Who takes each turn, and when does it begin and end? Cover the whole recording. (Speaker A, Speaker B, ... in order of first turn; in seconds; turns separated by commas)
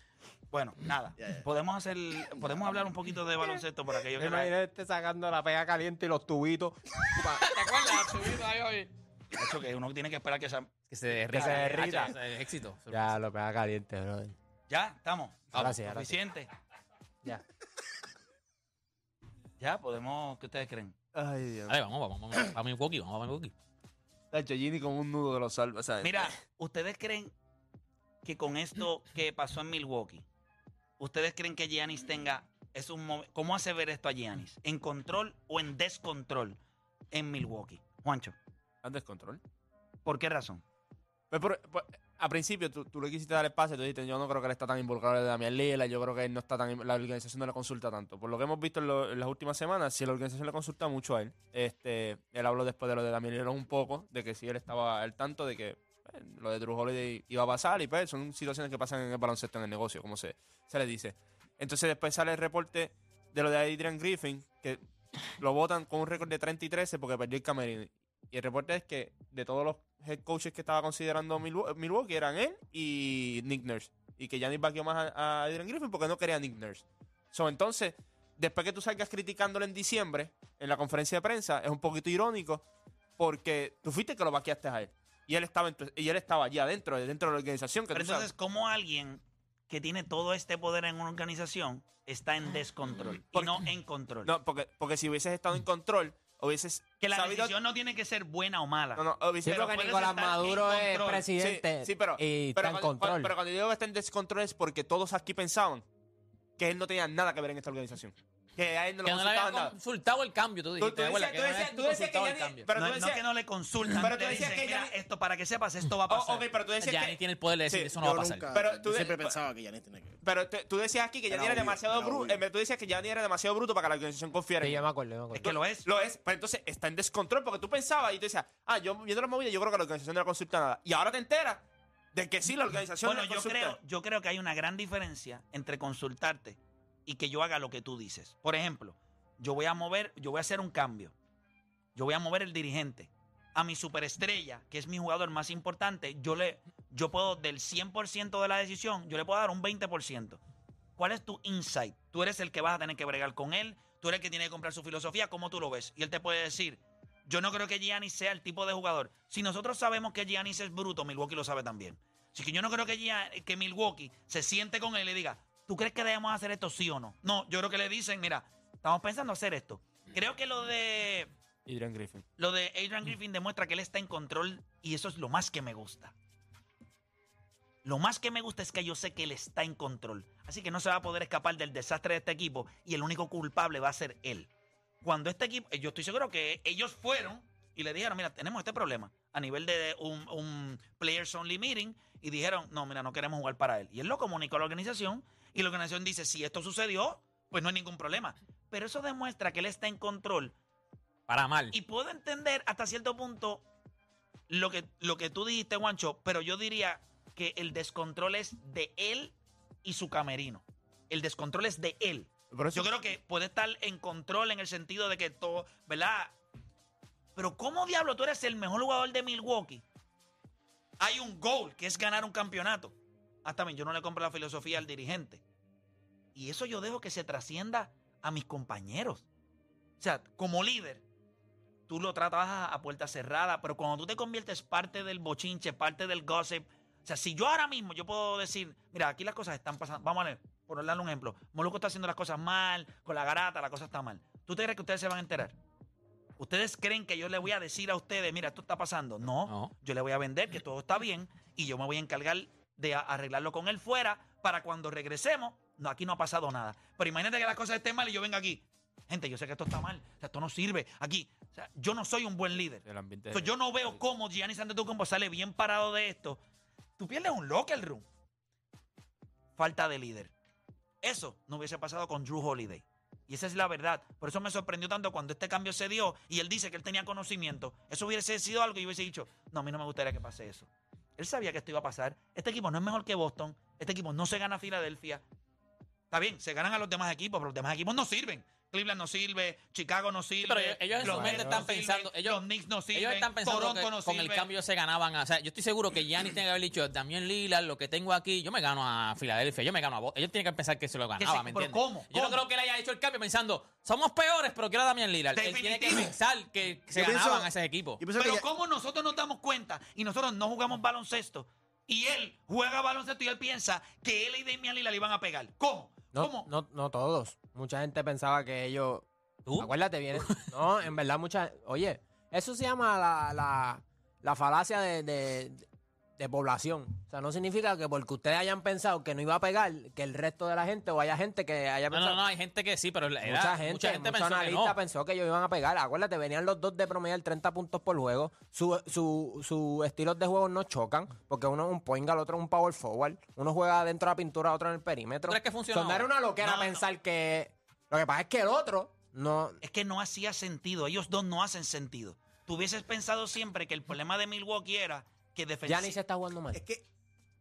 Speaker A: 0.5-4.5, Speaker B: 4.2-7.4, Speaker C: 7.2-8.9, Speaker A: 9.3-10.7, Speaker C: 10.9-13.1, Speaker A: 11.3-12.1, Speaker B: 11.3-12.2, Speaker B: 12.9-14.3, Speaker A: 14.7-16.5, Speaker B: 15.5-16.2, Speaker A: 19.6-20.9, Speaker D: 21.1-21.8, Speaker C: 21.7-23.5, Speaker D: 24.3-26.3, Speaker A: 26.0-27.3, Speaker A: 28.2-30.2, Speaker A: 31.0-36.6, Speaker A: 37.1-38.4, Speaker D: 38.8-39.4, Speaker A: 40.0-40.6, Speaker D: 41.3-64.8, Speaker D: 65.4-82.6, Speaker D: 83.2-88.3, Speaker A: 87.9-94.3, Speaker D: 93.3-93.7, Speaker D: 94.2-97.5, Speaker A: 97.0-101.2, Speaker D: 99.0-99.8, Speaker B: 99.5-103.3, Speaker D: 101.4-105.8, Speaker D: 106.6-109.7, Speaker C: 109.0-112.7, Speaker D: 110.8-113.2, Speaker A: 112.7-116.5, Speaker D: 113.9-114.9, Speaker D: 116.1-118.0, Speaker C: 116.8-118.5, Speaker E: 118.0-120.2, Speaker D: 118.5-119.4, Speaker D: 120.2-124.8, Speaker E: 121.3-122.4, Speaker B: 124.6-125.5, Speaker A: 125.3-125.9, Speaker D: 125.4-133.8, Speaker A: 133.0-141.1, Speaker A: 142.0-150.4, Speaker A: 151.0-171.3, Speaker D: 171.7-172.3, Speaker A: 172.4-176.1, Speaker A: 177.8-184.5, Speaker A: 185.0-200.6, Speaker C: 201.3-201.8, Speaker A: 201.7-203.7, Speaker A: 204.5-216.3, Speaker D: 212.5-212.9, Speaker A: 217.4-219.8, Speaker A: 221.0-225.4, Speaker A: 226.3-229.3, Speaker A: 230.0-231.0, Speaker A: 231.9-245.6, Speaker A: 246.4-266.4, Speaker C: 249.5-249.7, Speaker D: 262.8-264.0, Speaker A: 267.0-268.1, Speaker A: 269.6-270.3, Speaker A: 271.0-285.2, Speaker A: 286.1-294.5, Speaker C: 290.4-292.4, Speaker B: 291.0-291.6, Speaker C: 292.9-308.0, Speaker A: 301.2-302.4, Speaker A: 305.3-306.1, Speaker E: 306.9-308.4, Speaker A: 308.2-316.5, Speaker B: 316.1-325.7, Speaker C: 319.5-320.5, Speaker B: 326.2-332.2, Speaker C: 331.9-334.8, Speaker B: 333.2-349.6, Speaker C: 345.3-346.1, Speaker A: 346.4-346.9, Speaker A: 349.6-355.9, Speaker B: 355.7-356.6, Speaker E: 356.5-356.8